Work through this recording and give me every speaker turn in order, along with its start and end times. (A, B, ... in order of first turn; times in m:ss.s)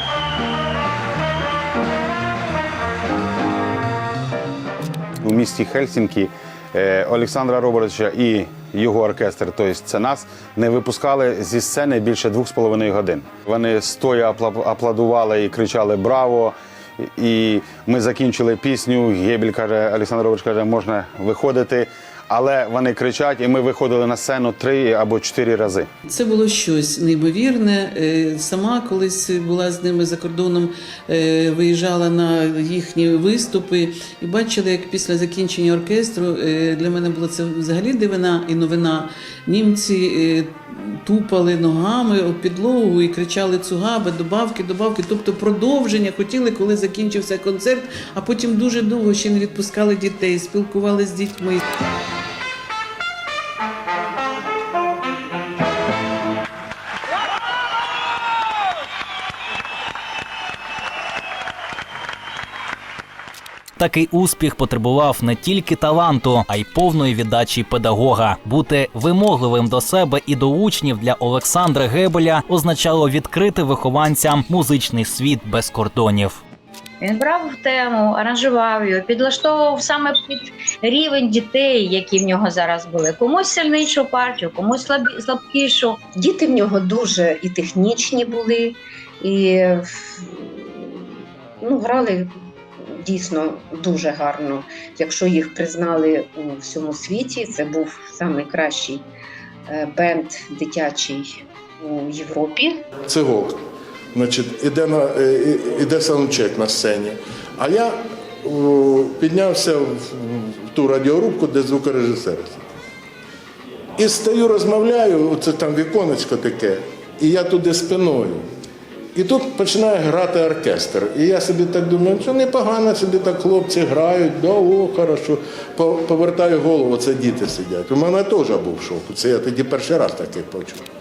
0:05.2-0:25.9 A
0:26.1-0:51.6 B
1:03.8-1:16.4 C
1:17.0-1:26.0 D
1:26.1-1:31.1 E
1:31.6-1:39.0 E
1:39.7-1:42.8 E
1:43.1-1:52.7 F
1:54.0-1:58.5 F
1:59.1-2:10.8 F